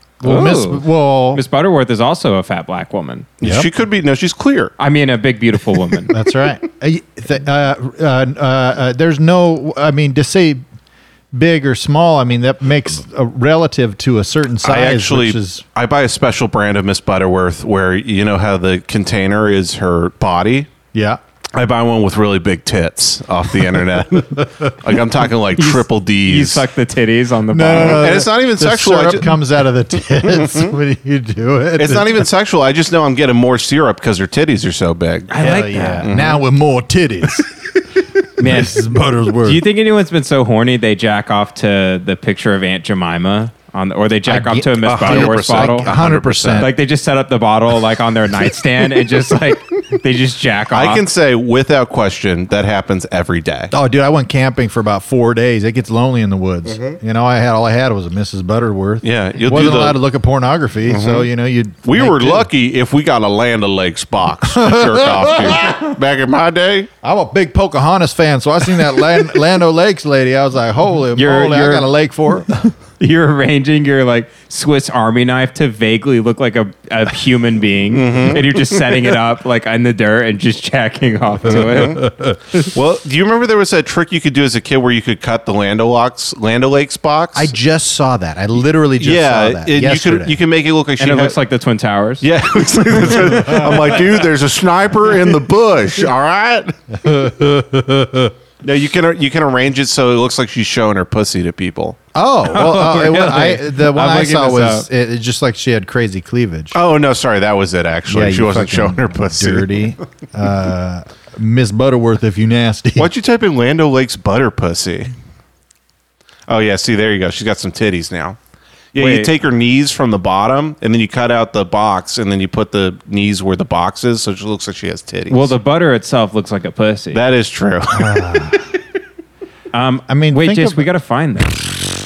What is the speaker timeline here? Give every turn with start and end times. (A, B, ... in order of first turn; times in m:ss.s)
0:00.2-0:01.4 A
0:00.2-0:03.3 B
0:03.4-0:04.7 C
0:03.4-0:03.7 A
0:04.8-0:06.2 B
0:06.1-0:10.6 A
0:11.3-0:15.6 A
0:14.6-0:20.7 C
0:20.9-0:21.2 A
0:21.5-0:26.6 C
0:24.4-0:24.7 A
0:25.6-0:28.2 B
0:27.5-0:32.3 A
0:27.8-0:29.3 C
0:30.3-0:30.7 C
0:31.8-0:35.3 C
0:35.3-0:36.1 B
0:35.4-0:37.5 A
0:36.0-0:36.4 C
0:38.4-0:39.6 A
0:38.4-0:38.8 B
0:39.4-0:45.9 B
0:44.3-0:46.7 A
0:44.8-0:46.7 C
0:46.6-0:51.0 B
0:50.7-0:53.7 C
0:53.7-1:02.5 A
0:56.7-0:57.0 C
0:59.0-1:00.0 C
1:00.9-1:01.3 C
1:01.8-1:06.9 C
1:04.5-1:05.8 A
1:07.0-1:12.7 A
1:11.2-1:11.9 B
1:13.0-1:22.1 B
1:17.9-1:18.8 C
1:21.5-1:22.0 C
1:21.9-1:22.4 A
1:22.7-1:27.6 C
1:27.3-1:30.4 A
1:29.0-1:31.4 C
1:31.0-1:32.3 B
1:32.2-1:36.8 C
1:33.1-1:34.0 A
1:37.0-1:38.3 A
1:38.6-1:42.0 C
1:42.1-1:46.8 A
1:42.5-1:44.9 B
1:46.7-1:49.9 C
1:48.1-1:53.1 A
1:53.0-1:55.1 C
1:56.5-1:58.4 C
1:58.9-2:05.6 C
1:59.0-1:59.3 B
2:05.3-2:07.2 B
2:07.1-2:08.2 C
2:07.9-2:08.6 A
2:09.7-2:11.6 B
2:10.1-2:10.9 A